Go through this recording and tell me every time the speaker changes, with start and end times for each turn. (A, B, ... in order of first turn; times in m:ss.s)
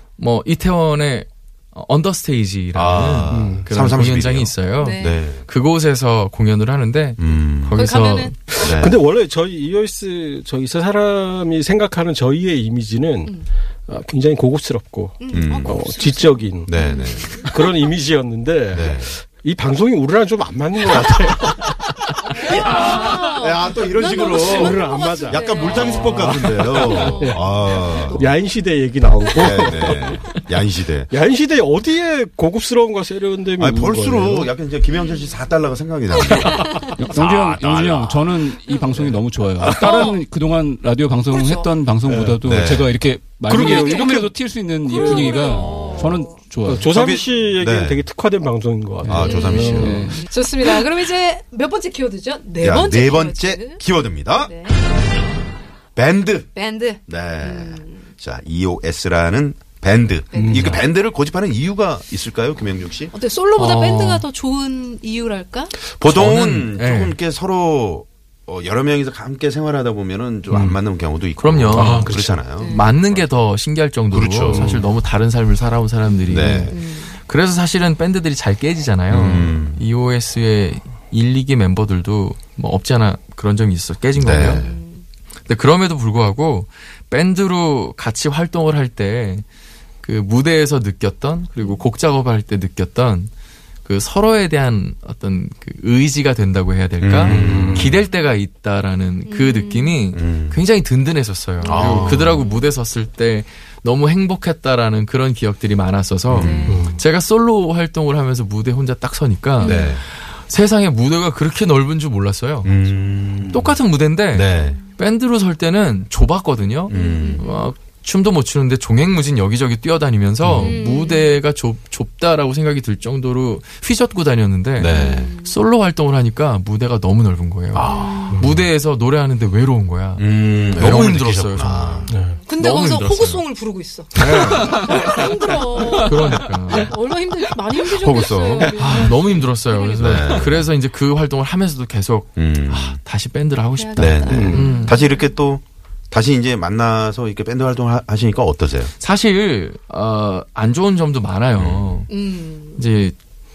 0:00.2-0:08.3 A
0:02.7-0:05.5 B
0:03.3-0:03.6 C
0:04.8-0:05.2 D
0:07.2-0:07.8 B
0:07.7-0:08.6 D
0:08.5-0:16.7 C
0:08.6-0:09.0 B
0:15.2-0:17.5 D
0:15.3-0:15.8 B
0:16.7-0:17.4 B
0:17.4-0:22.9 C
0:18.7-0:19.1 B
0:22.4-0:28.3 D
0:22.4-0:28.3 B
0:24.4-0:27.5 C
0:28.1-0:30.2 C
0:29.4-0:31.1 B
0:31.1-0:34.5 C
0:33.6-0:38.3 B
0:34.9-0:35.5 D
0:36.3-0:47.0 E
0:36.5-0:36.9 D
0:39.0-0:39.8 B
0:39.6-0:40.2 D
0:41.3-0:41.8 D
0:42.0-0:42.5 C
0:42.4-0:42.9 B
0:43.4-0:45.4 C
0:43.6-0:44.2 D
0:44.8-0:46.6 D
0:45.5-0:46.0 B
0:46.6-0:50.2 C
0:46.9-0:48.1 B
0:49.0-0:50.2 E
0:49.1-0:50.1 B
0:49.1-0:54.8 D
0:52.6-0:54.6 B
0:56.0-0:56.5 B
0:56.5-0:58.1 D
0:57.0-1:03.1 B
1:00.3-1:00.7 D
1:00.3-1:00.8 C
1:03.1-1:05.8 D
1:03.6-1:04.2 A
1:05.9-1:13.3 B
1:06.0-1:07.2 A
1:10.5-1:10.8 C
1:11.4-1:12.1 A
1:11.7-1:12.4 C
1:12.6-1:12.9 D
1:12.6-1:24.7 A
1:14.1-1:14.9 B
1:14.5-1:14.8 C
1:16.3-1:16.8 B
1:16.7-1:17.2 D
1:19.1-1:19.8 B
1:24.2-1:24.8 B
1:24.4-1:25.0 D
1:25.5-1:29.4 A
1:30.0-1:33.3 A
1:31.6-1:31.8 D
1:33.8-1:52.8 A
1:37.0-1:38.0 B
1:37.3-1:37.9 C
1:39.3-1:40.2 D
1:40.1-1:40.6 B
1:41.6-1:42.7 D
1:41.6-1:42.4 B
1:46.3-1:46.7 B
1:46.3-1:46.9 D
1:46.7-1:47.0 C
1:49.6-1:50.0 D
1:49.6-1:50.0 B
1:52.6-1:53.8 B
1:53.5-2:13.5 A
1:54.3-1:54.8 B
1:56.9-1:57.4 B
1:56.9-1:57.7 D
2:00.4-2:00.7 B
2:00.6-2:01.4 D
2:04.8-2:05.3 B
2:04.9-2:05.5 D
2:07.7-2:08.3 B
2:07.8-2:08.4 D
2:08.3-2:08.6 C
2:10.2-2:12.1 B
2:12.0-2:20.4 D
2:12.1-2:12.4 C
2:14.1-2:15.1 A
2:15.8-2:16.9 A
2:17.9-2:19.1 B
2:18.8-2:25.0 A
2:20.0-2:20.7 B
2:22.4-2:23.0 B
2:23.8-2:25.2 D
2:24.0-2:28.9 B
2:24.3-2:24.7 C
2:29.0-2:32.2 A
2:31.6-2:32.0 B
2:32.1-2:32.8 D
2:32.8-2:33.2 A